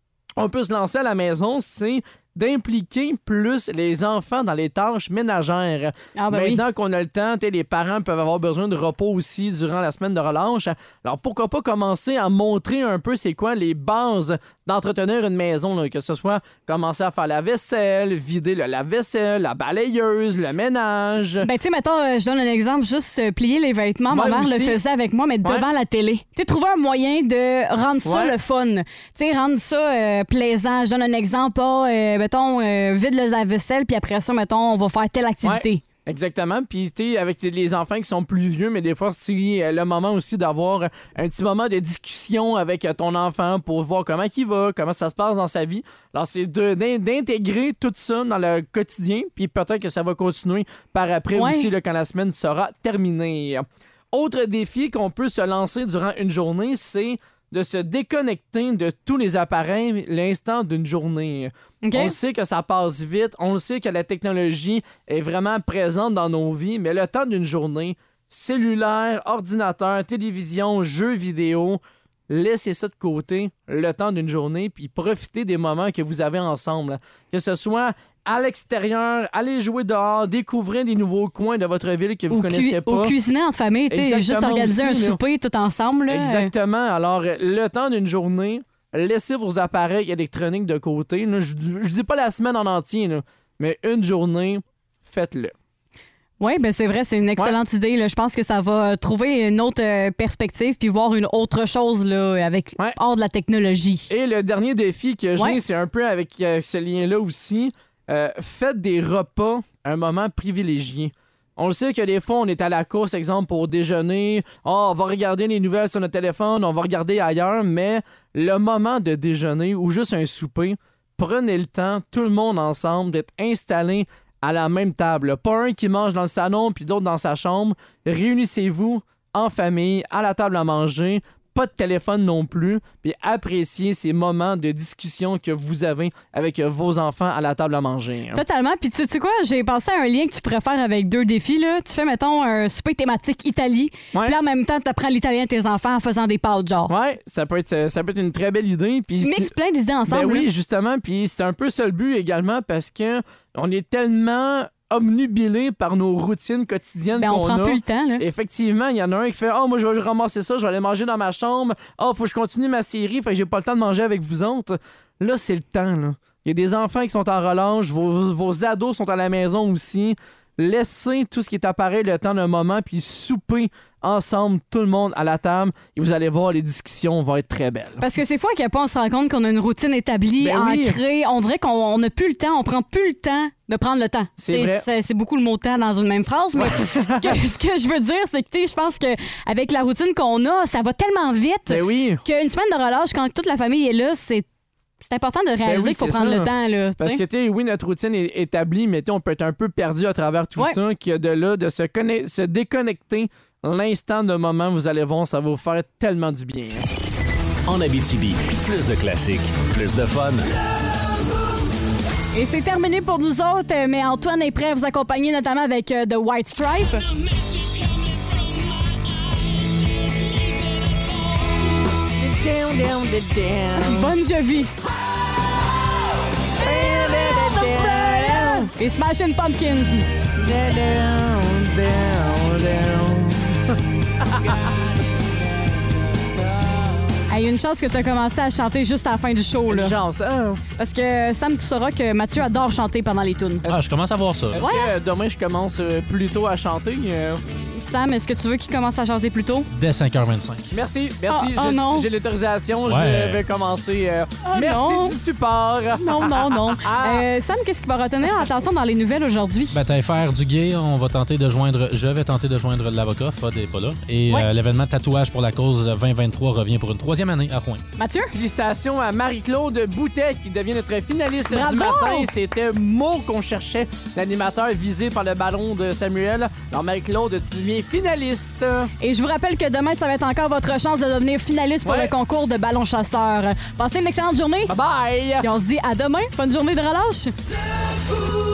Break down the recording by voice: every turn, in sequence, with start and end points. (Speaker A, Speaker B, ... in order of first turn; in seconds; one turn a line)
Speaker A: 0.4-21.5
Speaker B: 6.2-6.6
Speaker B: 21.4-35.8
Speaker A: 24.1-24.8
Speaker A: 28.0-28.3
Speaker A: 35.4-83.1
Speaker B: 51.4-51.7
Speaker B: 61.8-62.1
Speaker B: 82.3-86.5
Speaker A: 83.9-85.2
Speaker A: 86.1-95.5
Speaker B: 96.4-104.1
Speaker A: 104.1-138.4
Speaker B: 138.3-146.9
Speaker A: 146.9-149.5
Speaker B: 149.2-150.5
Speaker A: 150.1-178.0
Speaker B: 157.2-158.2
Speaker B: 178.0-194.5
Speaker A: 180.4-181.0
Speaker A: 184.4-184.8
Speaker A: 186.6-187.4
Speaker A: 191.7-192.2
Speaker B: 195.0-197.2
Speaker A: 195.7-206.9
Speaker C: 207.7-210.5
Speaker B: 212.3-217.1
Speaker A: 222.1-224.1
Speaker B: 223.8-224.7
Speaker A: 226.6-228.7
Speaker B: 228.4-230.1
Speaker A: 230.4-234.8
Speaker A: 236.2-236.9
Speaker B: 237.3-240.0
Speaker A: 239.7-240.6
Speaker B: 240.8-243.7
Speaker D: 243.7-244.6
Speaker A: 244.5-247.4
Speaker B: 244.6-244.9
Speaker B: 247.7-249.7
Speaker D: 249.7-250.7
Speaker A: 250.7-257.3
Speaker B: 251.3-252.1
Speaker D: 252.9-253.4
Speaker B: 254.4-255.2
Speaker B: 256.0-259.8
Speaker D: 259.7-267.8
Speaker B: 268.0-268.3
Speaker A: 268.3-278.9
Speaker B: 271.5-272.3
Speaker B: 279.0-284.7
Speaker A: 281.9-282.1
Speaker A: 284.7-285.5
Speaker B: 285.4-287.3